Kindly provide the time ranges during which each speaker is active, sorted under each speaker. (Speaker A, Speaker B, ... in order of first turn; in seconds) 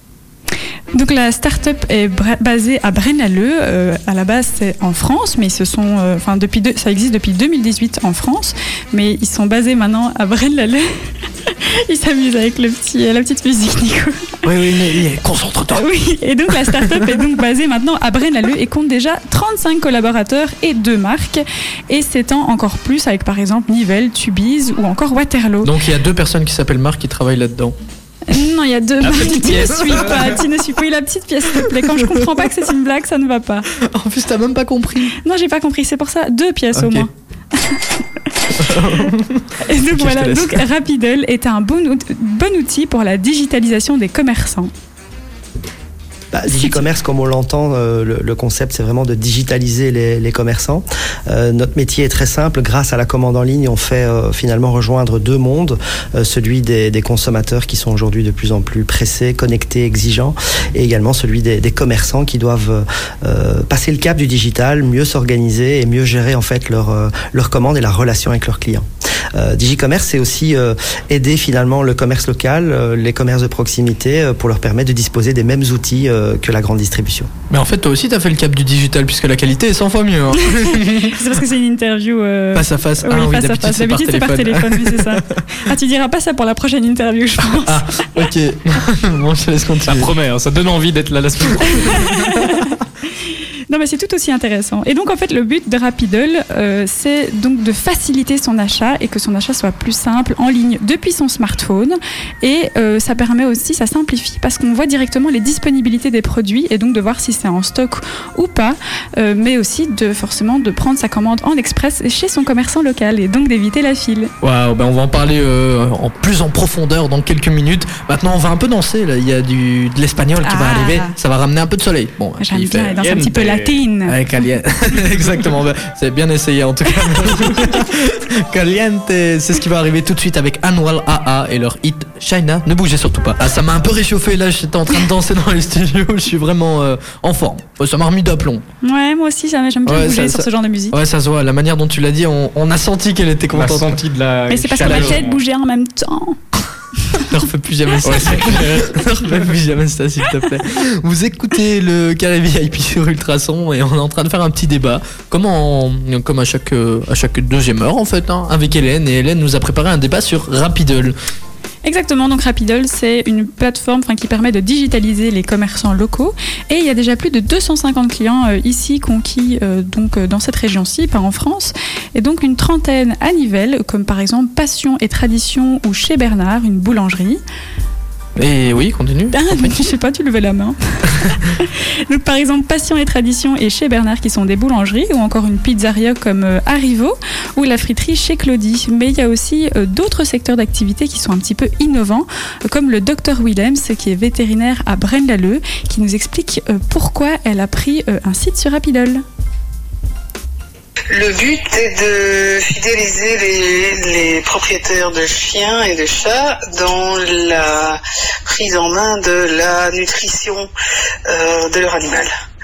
Speaker A: 0.9-14.4, 15.7-25.7, 28.3-33.7, 35.2-37.9, 38.7-39.1, 39.6-44.7, 46.5-46.9, 80.4-88.3, 91.7-92.7, 93.7-114.3, 120.4-121.2, 122.4-124.2, 127.2-127.7, 138.8-140.9, 144.5-146.4, 161.8-177.4, 179.3-199.2
Speaker B: 14.4-15.8, 16.6-17.1, 25.6-27.8, 29.1-30.4, 31.6-32.5, 33.8-35.2, 36.7-37.1, 38.5-40.6, 77.5-81.3, 82.5-85.5, 87.4-90.1, 114.4-123.0, 124.1-138.6, 139.9-144.0, 144.8-145.2, 147.2-161.2, 178.4-179.8
Speaker C: 46.3-77.3
Speaker D: 89.9-92.2, 122.9-123.8, 143.5-145.4, 148.0-149.6
Speaker E: 201.1-210.7, 211.3-212.3